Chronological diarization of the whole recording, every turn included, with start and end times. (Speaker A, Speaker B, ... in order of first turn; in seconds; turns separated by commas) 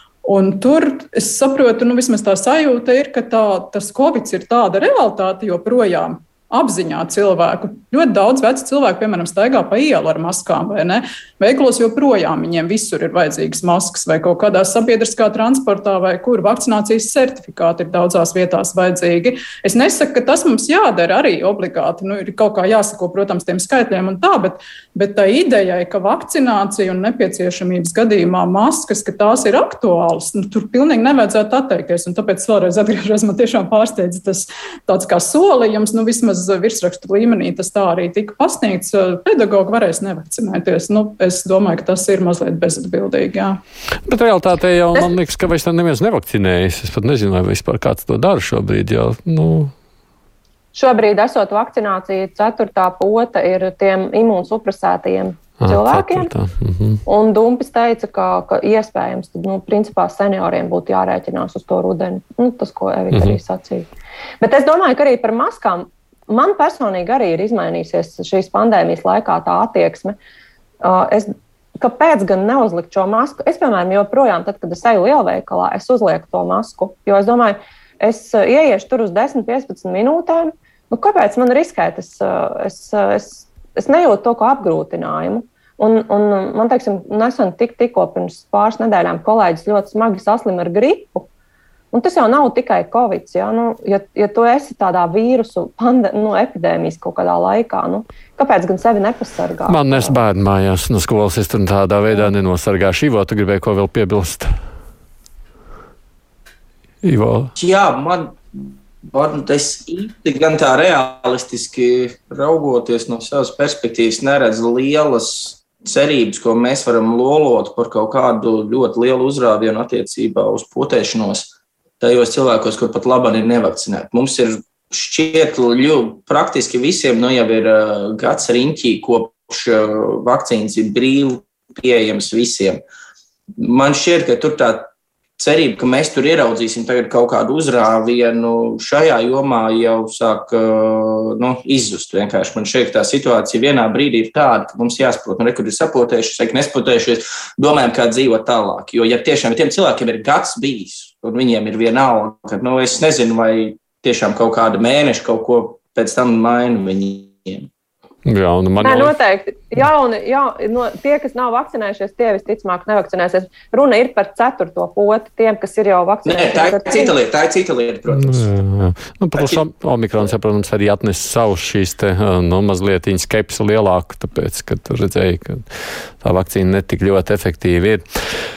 Speaker A: 0.2-43.6, Speaker B: 44.1-49.7, Speaker C: 50.7-56.3, Speaker B: 55.6-57.0, Speaker C: 57.1-63.9, Speaker C: 64.4-70.2, Speaker C: 70.8-91.3, Speaker C: 91.9-100.2, Speaker B: 99.7-104.5, Speaker B: 107.0-107.5, Speaker D: 107.6-132.8, Speaker D: 133.6-157.7, Speaker B: 158.2-159.1, Speaker C: 158.8-167.2, Speaker D: 166.2-168.5, Speaker B: 168.2-178.2, Speaker D: 169.3-169.6